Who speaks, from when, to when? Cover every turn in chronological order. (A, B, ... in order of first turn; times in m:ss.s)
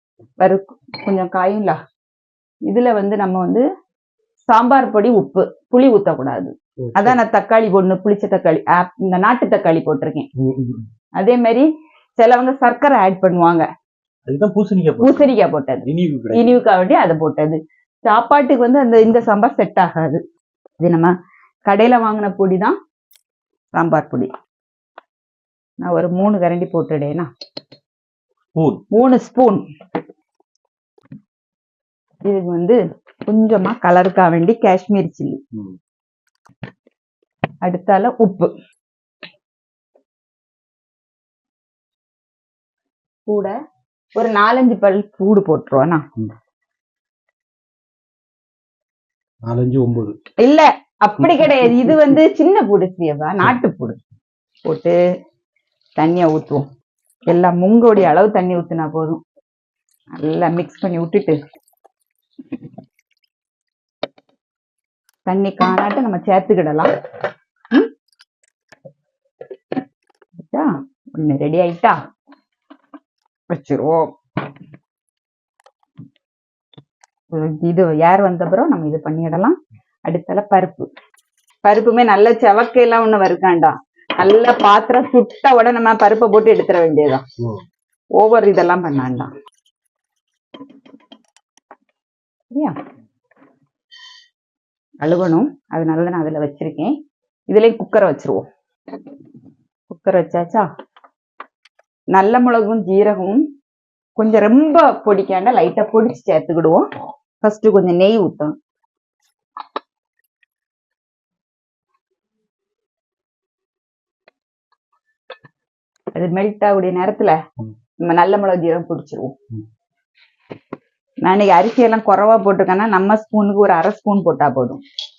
0:00.4-0:01.8 A
0:02.7-0:03.6 A
0:04.5-0:10.3 A
0:06.8-0:07.2 B
0:10.4-0:10.9 B
0:11.2-0:13.7 A
0:14.2-0:15.3 B
0:15.0-0:20.2 A
0:15.8-0:16.6 B
0:20.8-0:21.1 A
0:21.7-0:22.8 A
0:23.7-0:24.3 A
0:25.8-0:27.3 A
0:28.5-0:28.8 B
0:28.9-0:29.6 A
0:32.2-0:35.4 A
0:35.5-0:35.8 B
0:37.6-0:38.5 A
0:43.2-0:43.5 A
0:44.1-0:46.0 A
0:49.4-0:50.2 B
0:50.4-0:54.0 A
0:51.3-0:52.0 B
0:54.6-0:55.0 A
0:56.0-0:56.7 A
0:57.3-0:59.2 A
1:00.2-1:01.4 A
1:05.2-1:06.9 A
1:10.4-1:12.0 A
1:13.5-1:14.1 A
1:17.3-1:20.9 A
1:21.6-1:27.2 A
1:27.4-1:27.6 B
1:28.2-1:29.3 A
1:32.5-1:32.8 A
1:35.0-1:36.9 A
1:37.5-1:38.4 A
1:39.9-1:40.6 A
1:42.1-1:43.4 A
1:44.2-1:46.8 A
1:47.4-1:48.6 A
1:56.1-1:57.4 A
1:58.0-1:59.3 A
2:01.2-2:04.8 A